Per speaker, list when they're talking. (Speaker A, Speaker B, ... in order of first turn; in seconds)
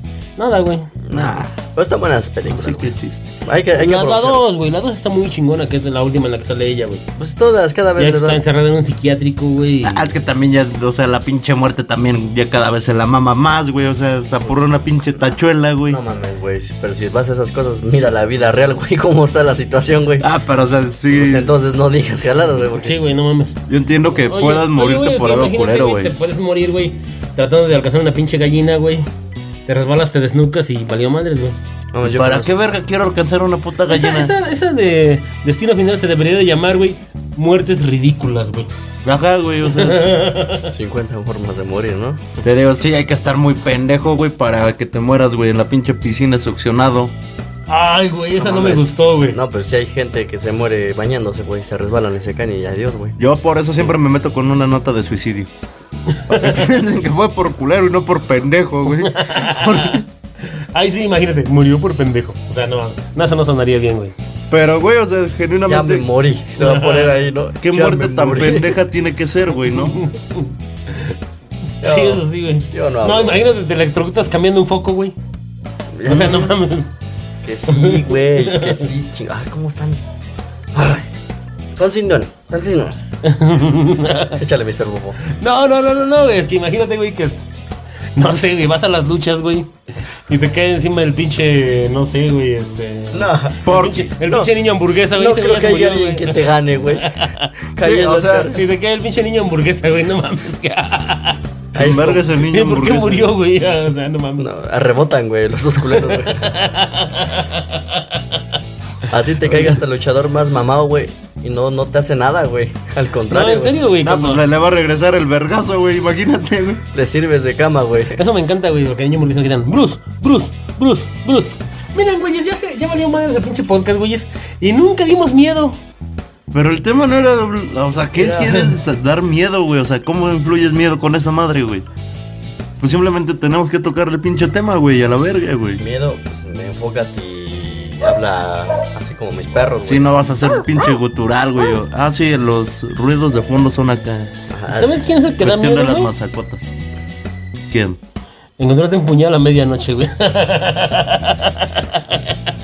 Speaker A: 0.4-0.9, 3.8-7.0, 8.0-10.2, 22.8-23.6, 24.3-29.1, 29.7-31.6, 33.9-38.7, 39.7-40.7, 47.7-49.4, 59.0-64.1, 66.6-67.1, 69.8-71.2, 71.8-75.2, 76.1-76.9, 77.7-78.9, 83.2-84.4, 85.2-87.4, 88.2-96.5, 97.0-97.5, 98.5-101.4, 102.4-104.5, 105.8-108.4, 113.3-114.4, 118.2-125.8, 144.7-146.1, 148.6-152.4
Speaker B: 1.0-2.9, 3.5-4.4, 7.2-8.4, 14.4-20.3, 21.1-23.0, 31.9-32.5, 40.7-42.4, 48.4-53.2, 65.7-68.8, 71.8-73.4, 75.9-76.6, 77.4-80.0, 80.7-81.1, 81.8-83.0, 84.4-85.2, 93.1-94.5, 95.2-98.6, 101.8-102.2, 104.4-106.5, 109.1-113.8, 116.9-118.2, 128.2-128.7, 135.8-140.2, 144.5-145.1
Speaker C: 1.1-1.5, 2.5-3.3, 9.8-16.0, 20.2-21.5, 23.7-26.1, 32.0-34.3, 39.0-40.1, 42.4-47.1, 53.2-55.5, 56.3-60.0, 64.5-66.1, 67.6-70.0, 93.7-94.1, 97.8-98.5, 101.8-103.3, 114.0-116.8, 126.5-131.9, 132.8-135.8, 139.8-144.3, 145.4-146.8, 147.7-148.0